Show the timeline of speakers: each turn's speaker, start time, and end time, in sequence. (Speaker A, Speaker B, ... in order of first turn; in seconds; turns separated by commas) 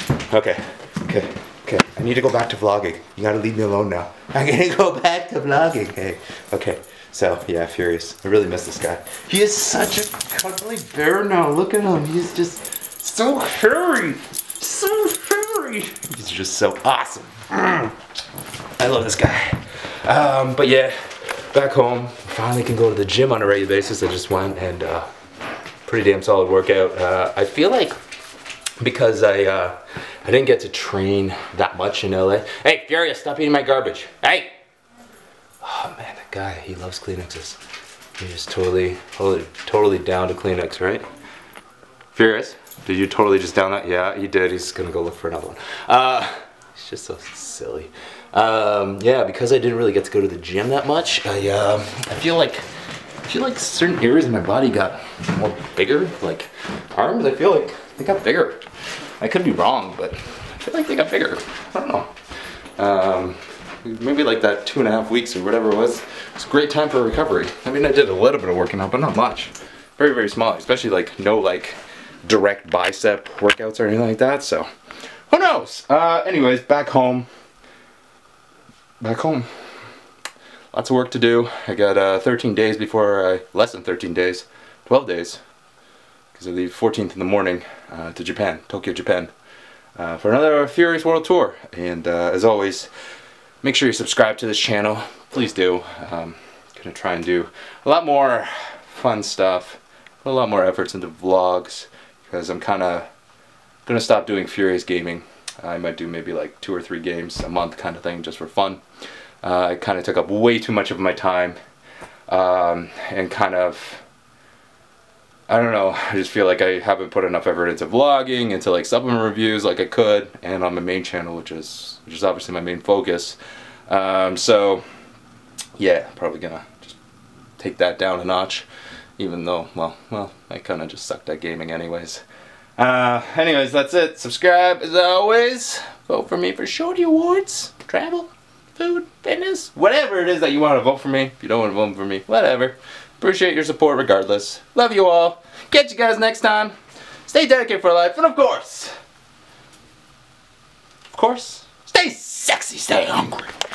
Speaker A: 0.3-17.9, Speaker A: 18.8-25.1, Speaker A: 25.9-27.9, Speaker A: 28.8-34.5, Speaker A: 35.6-37.6, Speaker A: 38.2-41.0, Speaker A: 42.1-52.6, Speaker A: 53.2-58.6, Speaker A: 59.2-62.1, Speaker A: 62.8-74.7, Speaker A: 75.3-77.3, Speaker A: 79.0-79.5, Speaker A: 80.7-85.4, Speaker A: 86.3-89.3, Speaker A: 90.0-92.9, Speaker A: 93.6-103.1, Speaker A: 103.8-108.8, Speaker A: 109.4-111.6, Speaker A: 112.3-114.0, Speaker A: 115.5-124.8, Speaker A: 125.8-127.0, Speaker A: 127.6-128.7, Speaker A: 129.2-132.2, Speaker A: 132.8-146.7, Speaker A: 147.2-148.9, Speaker A: 151.1-153.5